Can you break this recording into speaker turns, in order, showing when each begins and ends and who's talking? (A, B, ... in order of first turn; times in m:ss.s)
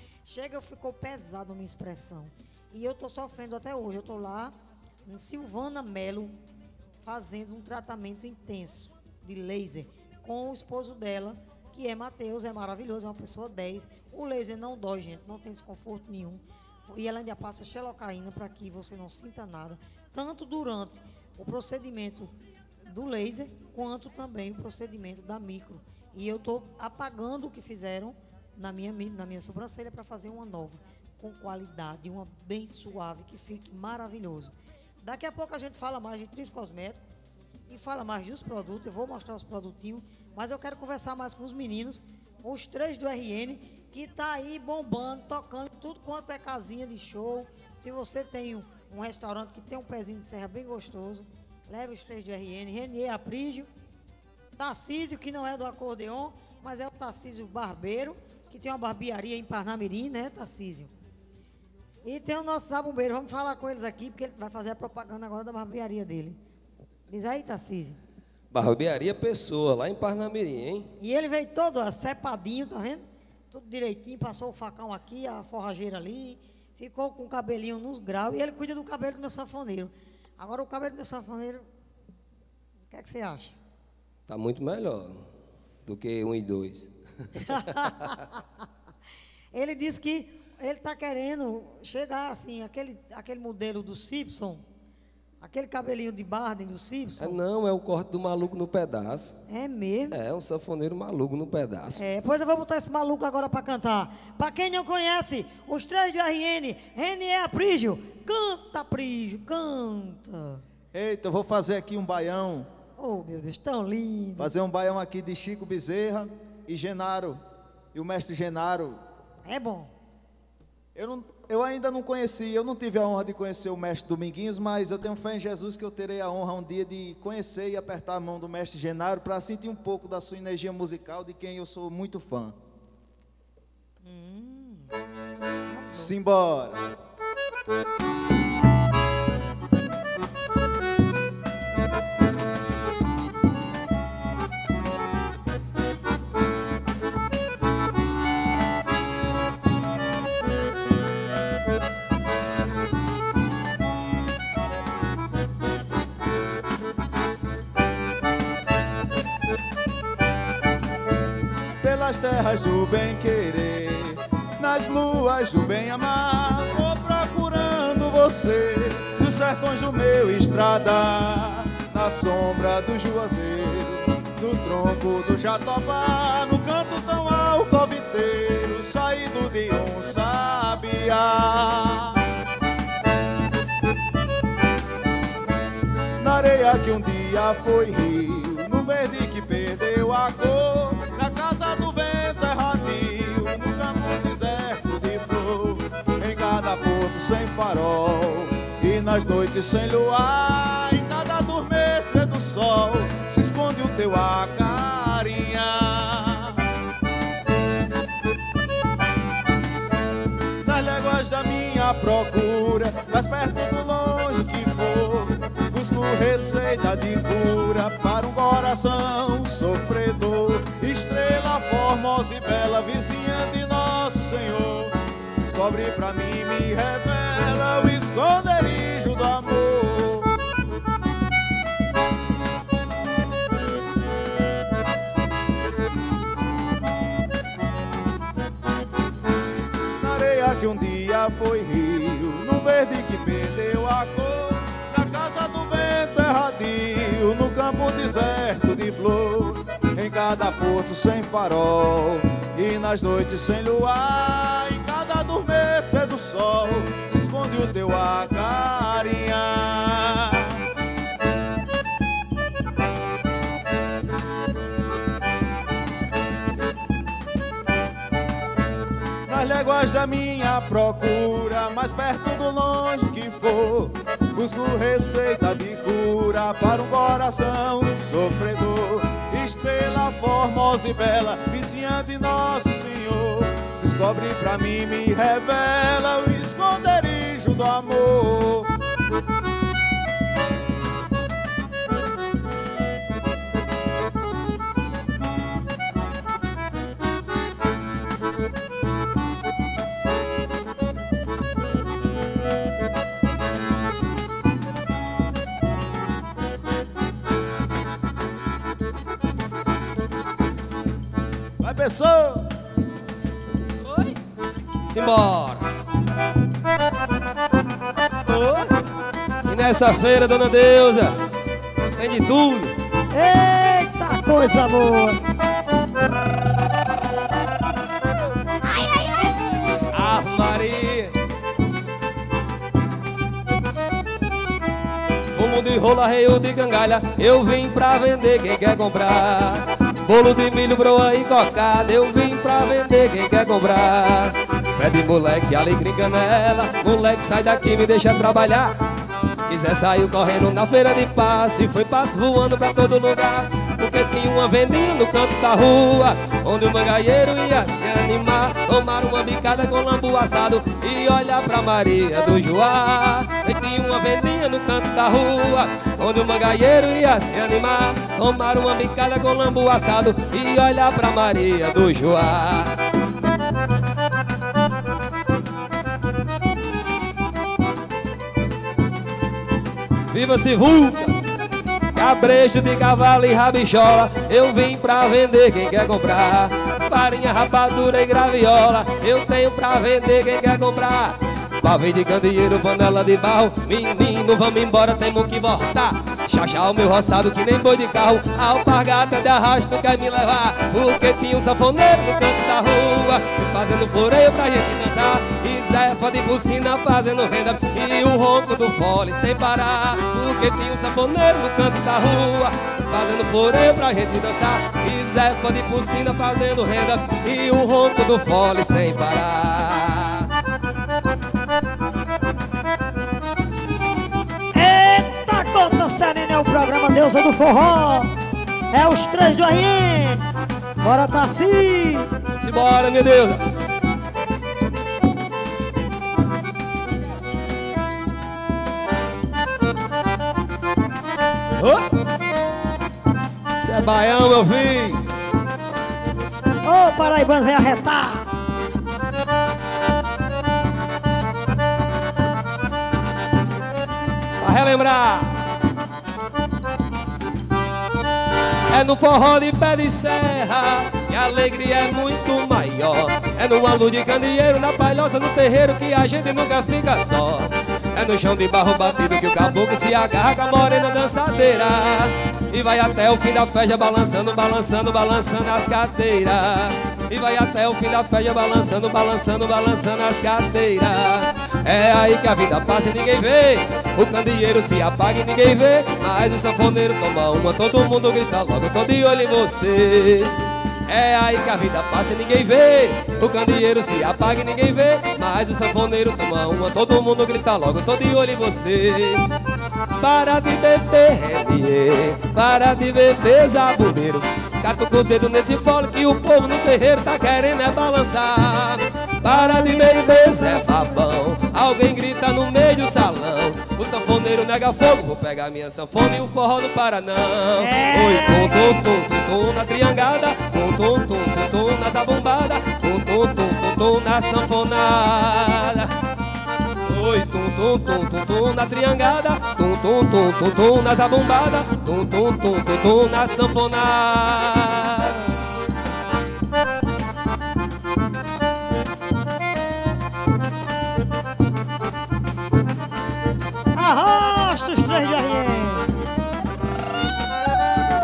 0:00.2-0:04.5 A
0:05.0-0:06.4 A
0:07.0-0:22.3 A
0:22.8-0:37.0 A
0:37.7-0:53.7 A
0:54.6-1:00.9 A
1:02.0-1:06.4 A
1:07.1-1:08.0 A
1:08.5-1:10.9 B
1:11.0-1:21.6 A
1:22.9-1:23.6 A
1:24.3-1:25.2 B
1:25.8-1:28.2 B
1:27.4-1:28.4 A
1:29.5-1:34.6 A
1:35.4-1:37.4 A
1:37.2-1:39.4 B
1:39.5-1:40.2 A
1:40.1-1:42.0 B
1:42.0-1:50.6 A
1:50.9-1:52.7 C
1:53.0-1:54.5 A
1:54.4-1:57.4 C
1:57.9-1:59.0 C
1:59.4-1:59.9 A
2:00.9-2:12.6 C
2:14.0-2:14.9 A
2:15.7-2:16.2 A
2:15.9-2:16.8 C
2:41.8-3:02.2 C
3:06.2-3:26.6 C
3:30.6-3:50.4 C
4:00.0-4:20.6 C
4:29.3-4:48.7 C
5:11.6-5:12.5 C
5:13.8-5:14.2 B
5:14.8-5:15.6 B
5:18.3-5:18.7 B
5:19.4-5:21.2 B
5:22.0-5:22.7 B
5:23.1-5:25.2 A
5:29.9-5:31.2 B
5:35.3-5:48.7 B
5:49.5-6:12.8 B
6:20.1-6:21.2 B
6:21.9-7:00.3 B
7:04.5-7:08.1 A
7:08.7-7:10.2 A
7:10.8-7:12.1 A
7:12.4-7:13.4 B
7:21.6-7:21.9 B
7:23.6-7:25.0 B
7:26.6-7:28.3 A
7:34.4-7:35.4 B
7:38.7-8:19.3 B
8:20.0-8:45.9 B
8:29.3-8:30.5 A
8:37.6-8:38.8 A
8:46.9-8:55.3 B
9:03.7-9:05.9 A